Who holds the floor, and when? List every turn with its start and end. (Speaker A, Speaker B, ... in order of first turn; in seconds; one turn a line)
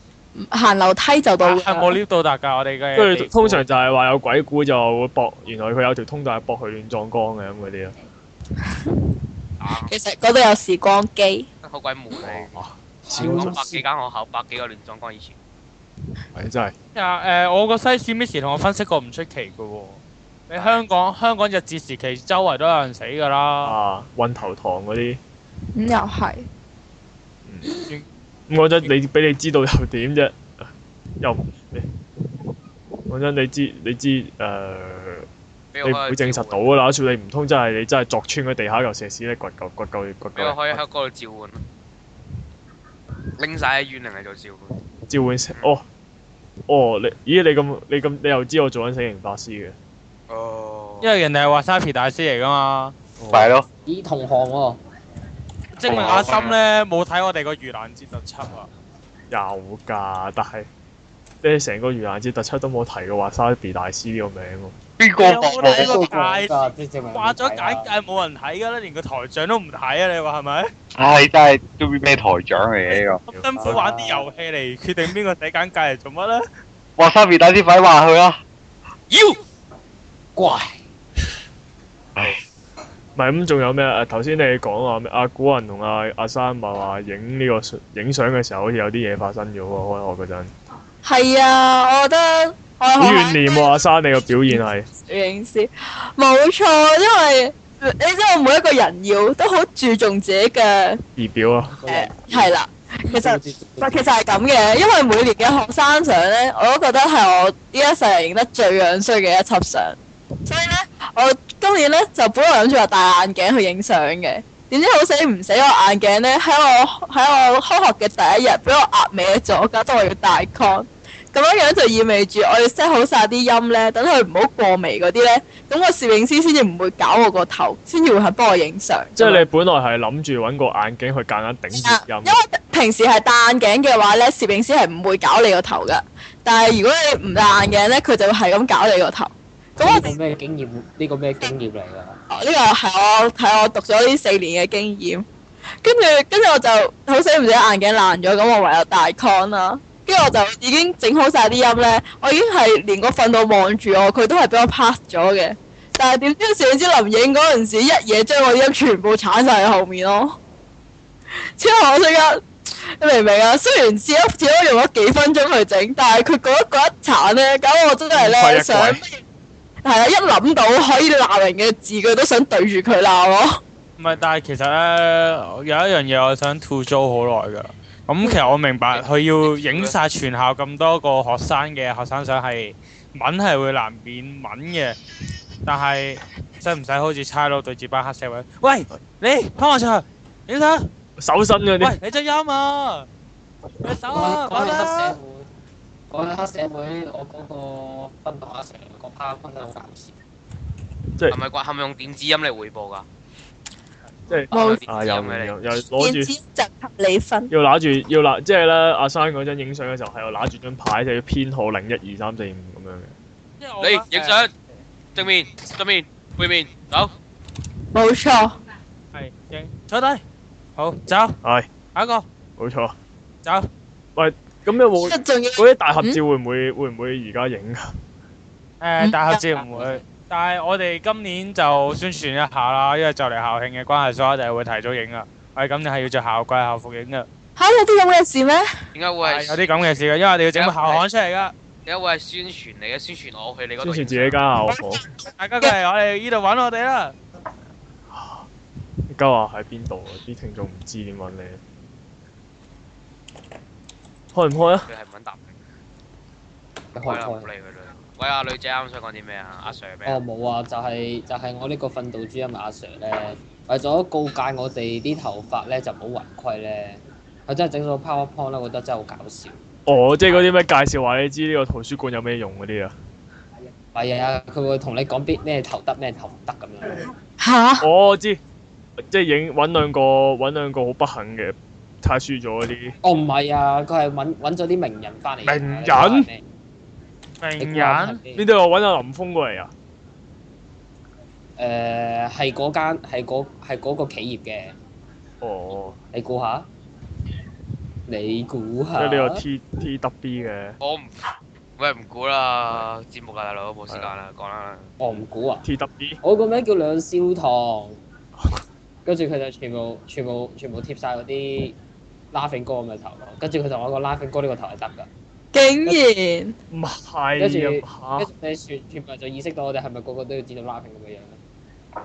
Speaker A: 0.4-2.0
Speaker B: 1.4-3.6
Speaker C: 3.0-8.0
Speaker D: 9.6-9.9
Speaker A: 9.8-11.5
Speaker D: 11.6-12.6
Speaker C: 12.2-13.6
Speaker E: 13.2-13.8
Speaker D: 13.2-15.4
Speaker C: 16.3-16.8
Speaker B: 16.9-23.8
Speaker D: 20.5-20.8
Speaker C: 23.6-25.2
Speaker A: 25.8-26.5
Speaker C: 28.5-30.4
Speaker C: 31.2-31.9
Speaker C: 33.1-35.3
Speaker D: 35.7-36.7
Speaker C: 35.8-40.8
Speaker D: 40.4-41.6
Speaker D: 43.4-44.8
Speaker C: 45.1-45.9
Speaker C: 46.7-49.8
Speaker D: 50.3-51.1
Speaker B: 51.0-53.0
Speaker F: 53.3-53.7
Speaker E: 53.9-54.8
Speaker B: 55.8-58.7
Speaker D: 55.9-56.5
Speaker F: 55.9-56.2
Speaker C: 59.3-60.7
Speaker C: 61.4-64.8
Speaker F: 65.0-66.0
Speaker B: 65.2-66.5
Speaker E: 65.6-67.9
Speaker B: 67.1-70.7
Speaker F: 71.0-73.2
Speaker B: 72.9-76.5
Speaker C: 73.3-73.8
Speaker E: 73.5-74.3
Speaker F: 77.0-78.4
Speaker D: 79.1-79.4
Speaker E: 80.4-80.8
Speaker C: 83.2-90.5
Speaker A: 91.0-93.8
Speaker C: 93.0-94.9
Speaker A: 94.5-101.0
Speaker C: 101.2-101.8
Speaker E: 101.7-102.5
Speaker A: 101.9-129.4
Speaker E: 103.1-104.1
Speaker C: 129.2-132.4
Speaker A: 131.8-140.2
Speaker E: 139.8-142.2
Speaker A: 142.3-145.2
Speaker A: 145.8-160.4
Speaker A: 161.6-169.2
Speaker C: 168.1-169.0
Speaker A: 169.8-173.6
Speaker B: 174.0-185.0
Speaker D: 178.9-179.9
Speaker B: 185.7-190.9
Speaker C: 191.2-192.0
Speaker B: 191.8-193.1
Speaker B: 193.8-195.2
Speaker E: 194.1-195.5
Speaker E: 196.1-200.2
Speaker D: 201.3-203.1
Speaker C: 204.3-206.3
Speaker D: 204.5-205.6
Speaker A: 204.5-204.8
Speaker A: 205.9-207.5
Speaker C: 207.5-213.1
Speaker B: 213.6-214.5
Speaker D: 213.8-214.5
Speaker D: 215.2-217.1
Speaker A: 217.9-218.6
Speaker B: 219.1-220.2
Speaker B: 220.8-221.4
Speaker C: 221.4-221.7
Speaker B: 221.9-222.3
Speaker C: 222.6-222.9
Speaker C: 224.2-227.9
Speaker A: 225.0-226.2
Speaker B: 228.8-237.3
Speaker A: 229.0-229.4
Speaker A: 237.6-238.7
Speaker D: 238.9-239.7
Speaker B: 239.2-241.5
Speaker D: 240.5-241.0
Speaker D: 241.9-244.4
Speaker C: 243.8-245.0
Speaker B: 245.2-247.2
Speaker C: 248.1-248.5
Speaker C: 249.1-251.6
Speaker C: 254.3-254.9
Speaker D: 254.9-255.5
Speaker E: 256.9-257.5
Speaker D: 257.0-260.2
Speaker E: 260.1-269.6
Speaker C: 269.9-272.9
Speaker E: 273.9-277.1
Speaker A: 277.4-277.9
Speaker C: 277.8-278.4
Speaker C: 279.1-282.9
Speaker E: 283.0-286.4
Speaker C: 285.4-286.3
Speaker B: 287.4-288.2
Speaker E: 287.6-288.4
Speaker C: 288.4-289.7
Speaker E: 291.6-294.8
Speaker C: 295.4-296.0
Speaker E: 296.1-296.7
Speaker E: 298.1-299.4
Speaker C: 299.0-300.8
Speaker D: 300.8-301.2
Speaker D: 301.8-304.9
Speaker E: 305.0-305.7
Speaker C: 305.6-306.2
Speaker E: 306.2-308.0
Speaker E: 309.1-311.8
Speaker E: 312.3-315.1
Speaker A: 315.5-316.6
Speaker C: 316.7-318.3
Speaker E: 317.4-321.4